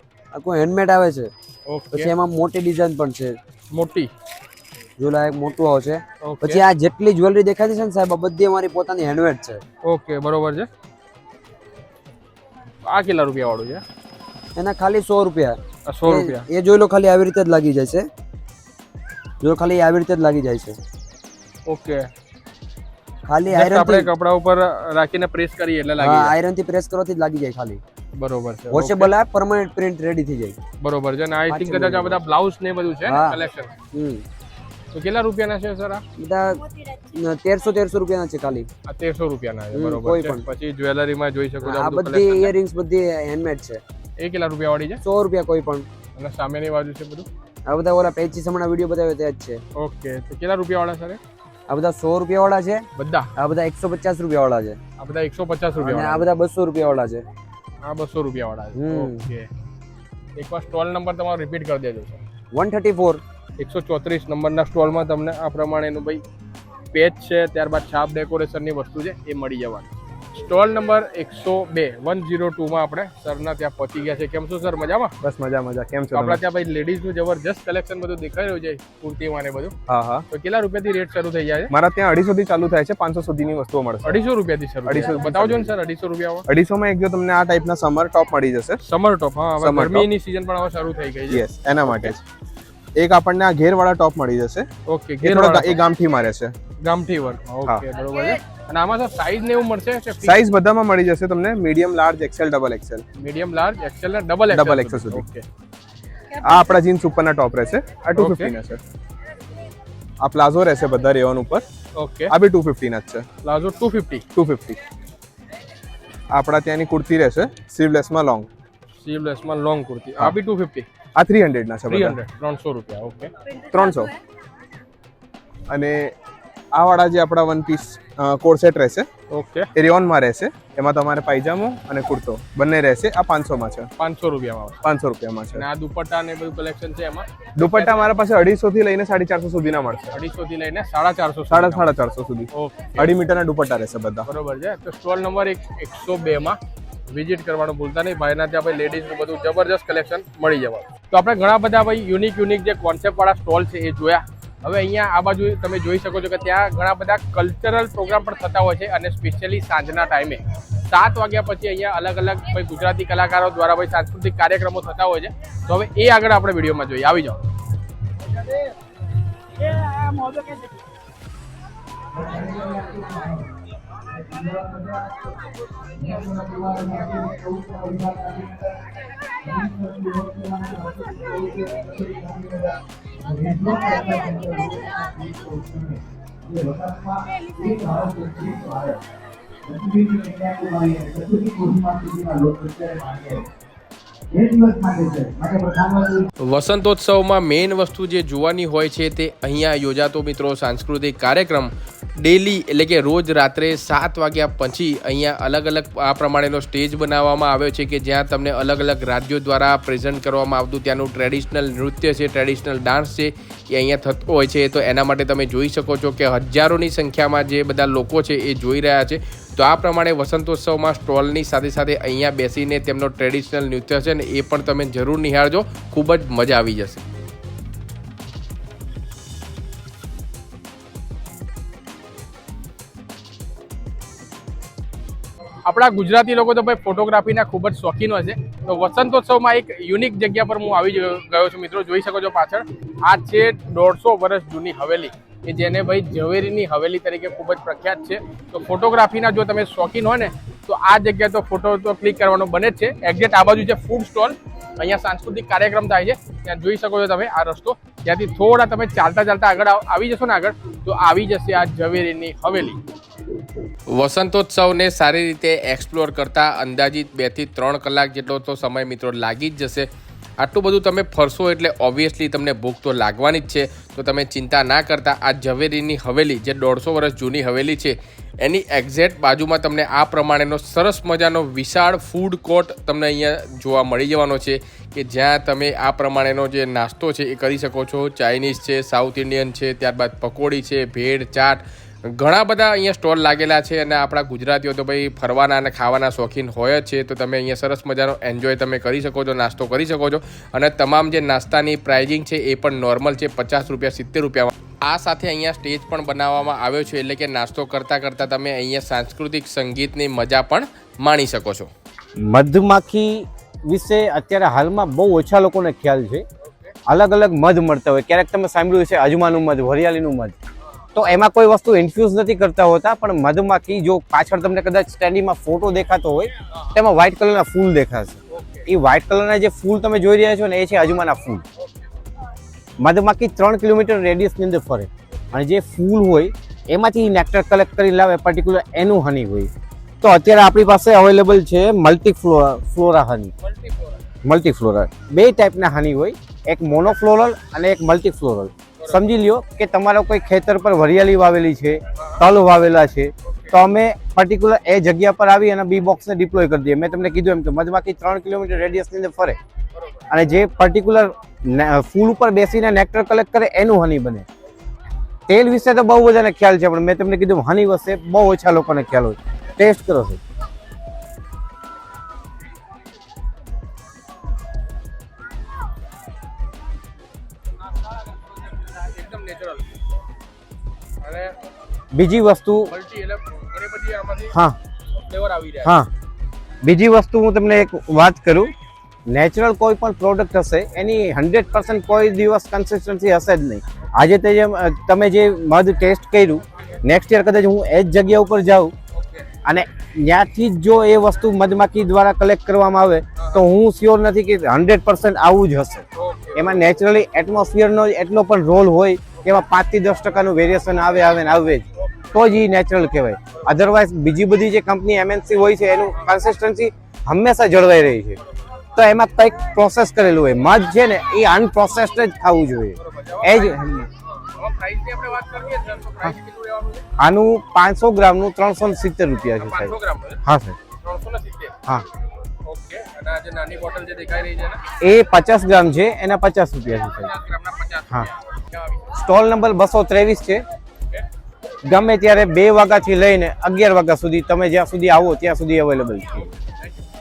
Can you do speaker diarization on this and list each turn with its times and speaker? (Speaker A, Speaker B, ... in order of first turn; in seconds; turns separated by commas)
Speaker A: 0.3-1.3, Speaker B: 1.7-2.1, Speaker A: 1.9-3.4, Speaker B: 3.7-4.1, Speaker A: 5.0-9.6, Speaker B: 6.2-6.6, Speaker B: 9.9-10.7, Speaker B: 12.8-13.8, Speaker A: 14.6-18.1, Speaker B: 15.8-16.4, Speaker A: 19.4-20.8, Speaker B: 21.7-22.1, Speaker A: 23.3-24.1, Speaker B: 23.5-26.3, Speaker A: 26.0-27.8, Speaker B: 28.1-29.1, Speaker A: 28.7-30.6, Speaker B: 30.8-33.7, Speaker A: 31.5-32.1, Speaker A: 33.0-33.4, Speaker A: 33.9-34.2, Speaker B: 34.9-36.0, Speaker A: 36.2-36.6, Speaker A: 37.1-38.7, Speaker B: 38.9-42.5, Speaker A: 39.7-40.4, Speaker A: 41.6-43.8, Speaker B: 44.2-45.0, Speaker A: 45.0-45.9, Speaker B: 46.1-47.3, Speaker A: 47.7-49.6, Speaker B: 49.8-51.2, Speaker A: 51.7-52.8, Speaker B: 53.0-53.3, Speaker A: 53.4-54.8, Speaker B: 55.0-56.3, Speaker A: 55.8-57.2, Speaker B: 57.8-59.5, Speaker A: 58.8-59.2, Speaker B: 60.4-62.2, Speaker A: 62.5-63.2, Speaker B: 63.6-66.2, Speaker B: 66.9-75.1, Speaker C: 75.2-76.4, Speaker B: 76.1-79.7, Speaker C: 79.9-80.2, Speaker B: 80.3-81.7, Speaker C: 81.7-84.2, Speaker B: 84.0-86.4, Speaker C: 84.8-85.7, Speaker C: 86.5-88.8, Speaker B: 88.8-91.4, Speaker C: 89.6-90.1, Speaker C: 91.3-92.2, Speaker C: 93.0-94.7, Speaker B: 94.9-95.8, Speaker C: 95.2-96.5, Speaker B: 96.8-100.4, Speaker C: 100.2-103.0, Speaker B: 103.2-105.4, Speaker C: 104.5-105.3, Speaker C: 106.4-108.8, Speaker B: 108.1-108.5, Speaker C: 110.2-111.6, Speaker B: 112.0-112.3, Speaker C: 112.3-113.2, Speaker B: 113.4-114.2, Speaker C: 114.3-114.8, Speaker C: 116.3-118.5, Speaker B: 119.0-120.9, Speaker C: 121.2-122.2, Speaker B: 121.9-123.3, Speaker C: 123.7-124.1, Speaker C: 125.7-126.1, Speaker C: 126.8-129.1, Speaker B: 129.3-129.7, Speaker C: 129.8-133.9, Speaker B: 134.0-134.8, Speaker C: 134.8-135.6, Speaker B: 135.5-138.1, Speaker C: 137.6-140.2, Speaker B: 140.1-141.9, Speaker C: 141.5-144.2, Speaker B: 142.5-143.1, Speaker B: 144.3-146.6, Speaker B: 147.1-167.4, Speaker A: 172.2-173.4, Speaker A: 174.2-175.0, Speaker A: 176.0-178.7, Speaker A: 179.4-182.7, Speaker A: 183.3-189.0, Speaker A: 189.7-193.4, Speaker A: 194.3-196.3, Speaker D: 196.5-227.0, Speaker B: 235.7-262.8, Speaker D: 263.9-269.9, Speaker D: 270.4-291.6, Speaker D: 292.2-311.7, Speaker E: 312.2-316.2, Speaker B: 316.4-316.7, Speaker E: 316.9-320.3, Speaker E: 320.9-331.4, Speaker B: 328.3-328.6, Speaker E: 332.8-339.5, Speaker E: 340.0-343.3, Speaker B: 343.4-344.0, Speaker E: 344.2-359.4, Speaker E: 360.1-364.2, Speaker E: 365.3-370.2, Speaker B: 378.4-379.7, Speaker B: 381.0-381.3, Speaker E: 381.9-382.7, Speaker B: 382.7-384.4, Speaker E: 384.3-384.6, Speaker B: 384.9-385.7, Speaker E: 385.6-385.9, Speaker E: 386.6-388.5, Speaker E: 389.1-398.7, Speaker B: 398.9-399.3, Speaker E: 399.4-418.2, Speaker B: 405.9-406.6, Speaker E: 418.8-423.9, Speaker B: 422.8-426.8, Speaker E: 427.0-430.6, Speaker B: 429.4-430.2, Speaker B: 430.8-431.5, Speaker B: 432.4-434.6, Speaker E: 434.8-437.1, Speaker B: 437.0-438.9, Speaker E: 438.9-440.4, Speaker E: 441.6-446.3